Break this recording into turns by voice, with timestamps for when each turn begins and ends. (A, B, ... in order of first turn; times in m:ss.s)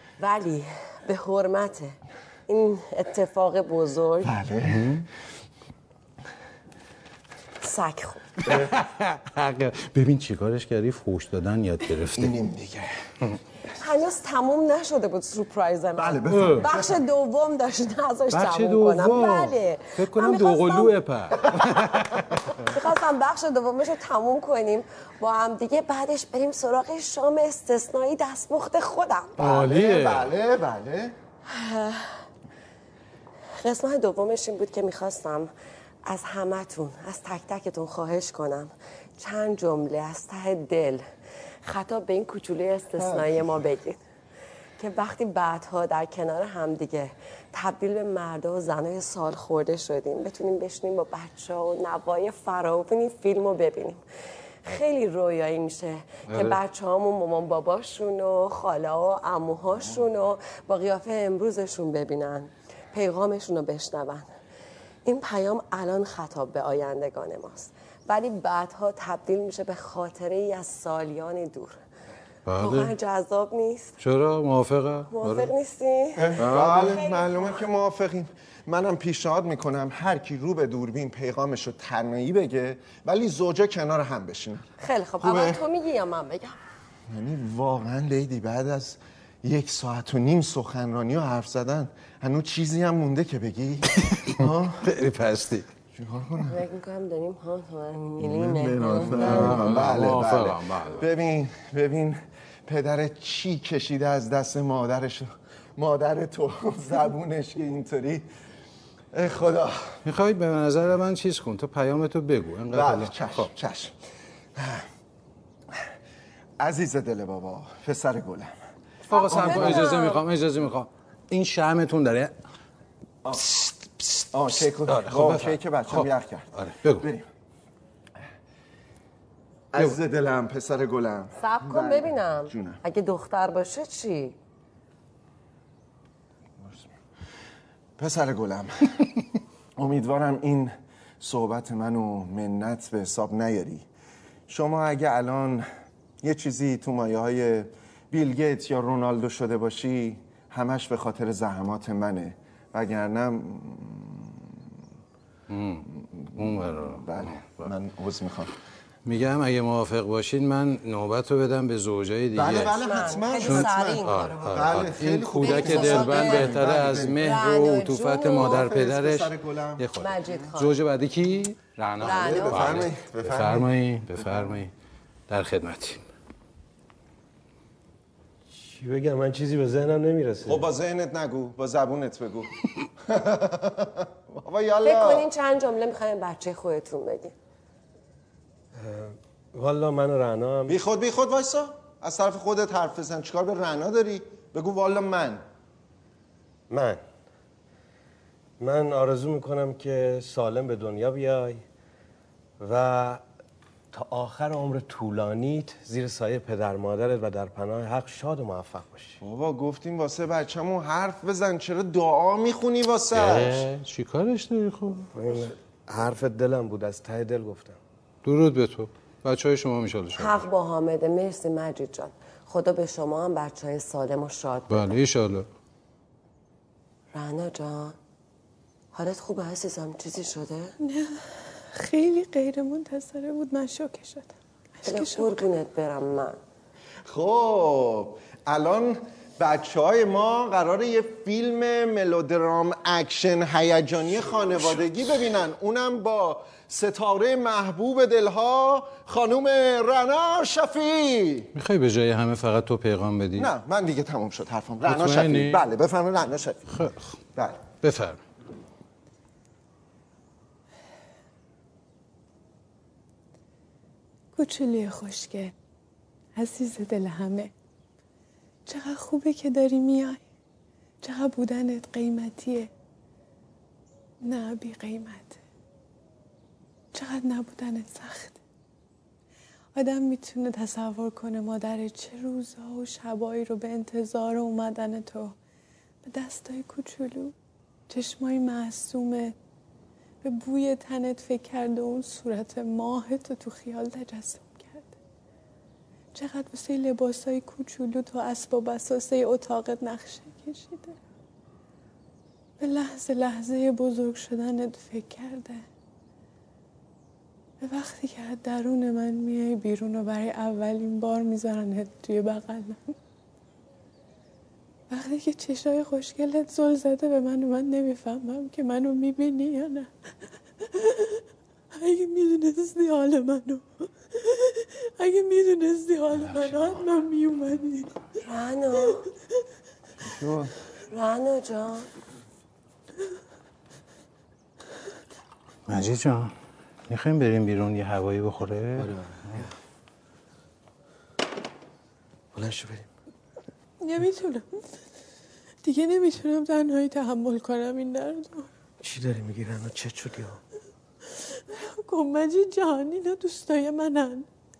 0:00.2-0:04.4 A
0:04.2-0:05.0 B
0:04.6-0:05.1 C
0:07.6-0:08.5 A
0:08.4-0:08.7 B
0:08.4-0:12.3 C
0:12.2-0:12.9 B
0:13.8-0:20.9 A
0:16.0-0:17.0 B
0:16.3-0:16.7 C
0:18.3-0:22.4 C
0:22.4-0:29.4 A
0:29.4-0:31.2 B
0:29.4-0:30.3 C
0:31.4-0:32.2 A
0:33.6-0:35.5 A
0:36.0-0:44.0 A
0:43.0-0:43.5 B
0:44.8-0:54.0 A
0:54.6-1:04.4 A
0:56.3-0:56.6 C
1:05.0-1:11.7 A
1:12.4-1:12.9 C
1:12.6-1:14.0 A
1:14.0-1:15.5 C
1:15.1-1:17.6 A
1:16.2-1:25.6 B
1:16.4-1:17.0 C
1:24.8-1:26.6 A
1:27.1-1:34.9 B
1:34.8-1:35.7 C
1:35.9-1:36.6 B
1:36.4-1:39.8 A
1:38.2-1:48.3 B
1:39.0-1:41.0 C
1:49.1-1:50.0 B
1:50.0-1:53.5 C
1:52.7-1:53.9 B
1:54.6-1:54.8 B
1:56.6-1:58.6 B
1:59.1-2:00.2 A
1:59.1-2:02.4 C
1:59.2-1:59.9 B
2:03.2-2:03.5 B
2:04.3-2:07.3 B
2:04.8-2:07.1 C
2:09.7-2:12.8 B
2:11.4-2:14.4 A
2:16.6-2:16.9 B
2:18.0-2:19.1 B
2:19.8-2:23.8 B
2:24.5-2:25.6 B
2:26.2-2:34.6 B
2:35.5-2:37.7 C
2:36.0-2:38.5 B
2:39.0-2:42.8 C
2:42.3-2:47.3 B
2:42.8-2:44.8 A
2:43.4-2:54.7 C
2:45.4-2:48.8 A
2:48.3-2:49.9 B
2:50.0-2:50.8 A
2:52.0-2:52.8 A
2:52.0-2:53.7 B
2:55.3-2:56.0 C
2:58.5-3:00.6 D
3:00.4-3:05.3 B
3:04.8-3:07.3 A
3:08.7-3:10.8 D
3:10.7-3:15.4 B
3:16.7-3:17.0 D
3:18.6-3:21.6 D
3:22.6-3:23.2 D
3:23.9-3:29.2 D
3:29.2-3:33.6 B
3:33.1-3:35.1 C
3:35.1-3:37.8 D
3:38.2-3:40.4 C
3:40.1-3:44.8 A
3:44.7-3:45.5 C
3:47.1-3:48.0 A
3:48.9-3:50.8 A
3:50.8-3:55.4 E
3:54.8-3:56.4 A
3:57.0-4:11.5 B
4:11.5-4:13.5 C
4:13.4-4:16.6 B
4:14.8-4:15.6 C
4:16.7-4:17.2 C
4:17.3-4:17.6 B
4:17.8-4:18.2 C
4:24.3-4:25.5 E
4:26.3-4:27.5 E
4:28.6-4:30.2 E
4:31.0-4:32.7 E
4:34.2-4:35.4 E
4:36.9-4:38.4 E
4:39.7-4:45.3 E
4:46.0-4:47.3 E
4:47.9-4:49.3 E
4:50.2-4:54.9 E
4:56.1-5:01.0 E
5:02.6-5:05.6 E
5:07.6-5:12.9 E
5:14.9-5:19.9 E
5:20.6-5:21.2 E
5:21.7-5:28.0 E
5:28.2-5:29.0 A
5:30.0-5:30.5 B
5:30.9-5:31.9 A
5:35.7-5:36.3 C
5:36.9-5:39.4 C
5:38.8-5:39.5 D
5:42.3-5:42.9 D
5:43.8-5:44.8 E
5:45.6-5:48.5 E
5:48.8-5:50.4 D
5:51.0-5:54.3 E